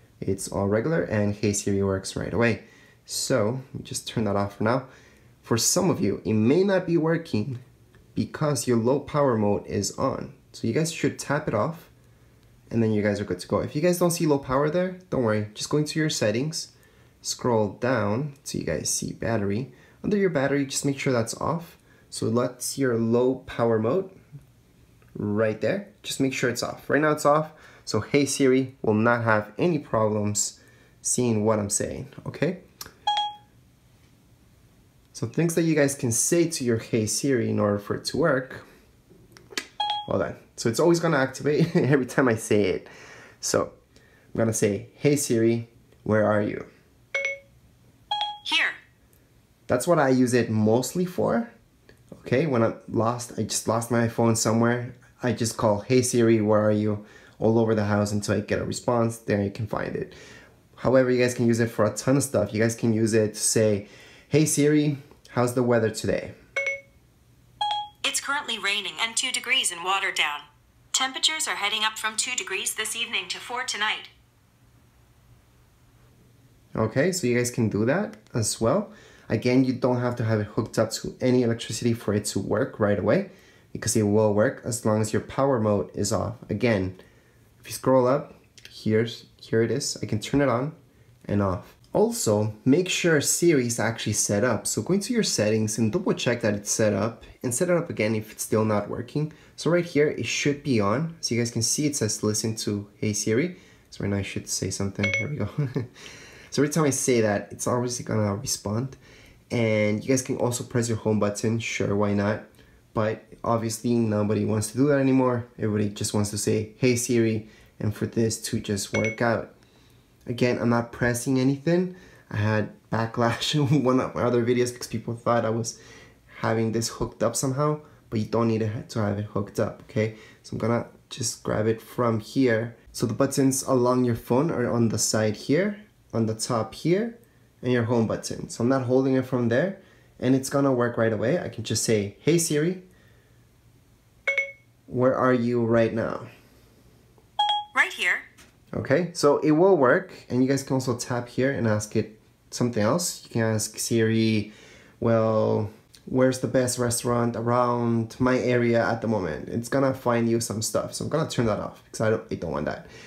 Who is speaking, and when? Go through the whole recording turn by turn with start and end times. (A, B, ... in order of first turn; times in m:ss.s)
0:00.2-0:04.9 A
0:05.4-0:07.6 A
0:08.2-0:11.9 A
0:12.7-0:16.7 A
0:17.2-0:24.2 A
0:25.2-0:32.6 A
0:35.1-0:38.6 A
0:40.1-0:42.9 A
0:43.4-0:43.8 A
0:44.3-0:46.7 A
0:48.4-0:48.8 B
0:49.7-0:51.5 A
0:52.2-1:00.2 A
1:00.8-1:06.3 A
1:08.0-1:14.1 B
1:16.8-1:27.0 A
1:27.6-1:30.8 A
1:31.3-1:45.9 A
1:46.5-1:49.0 A
1:49.5-1:59.5 A
2:00.3-2:05.8 A
2:06.3-2:22.8 A
2:24.9-2:26.3 A
2:27.8-2:28.2 B
2:28.7-2:42.9 A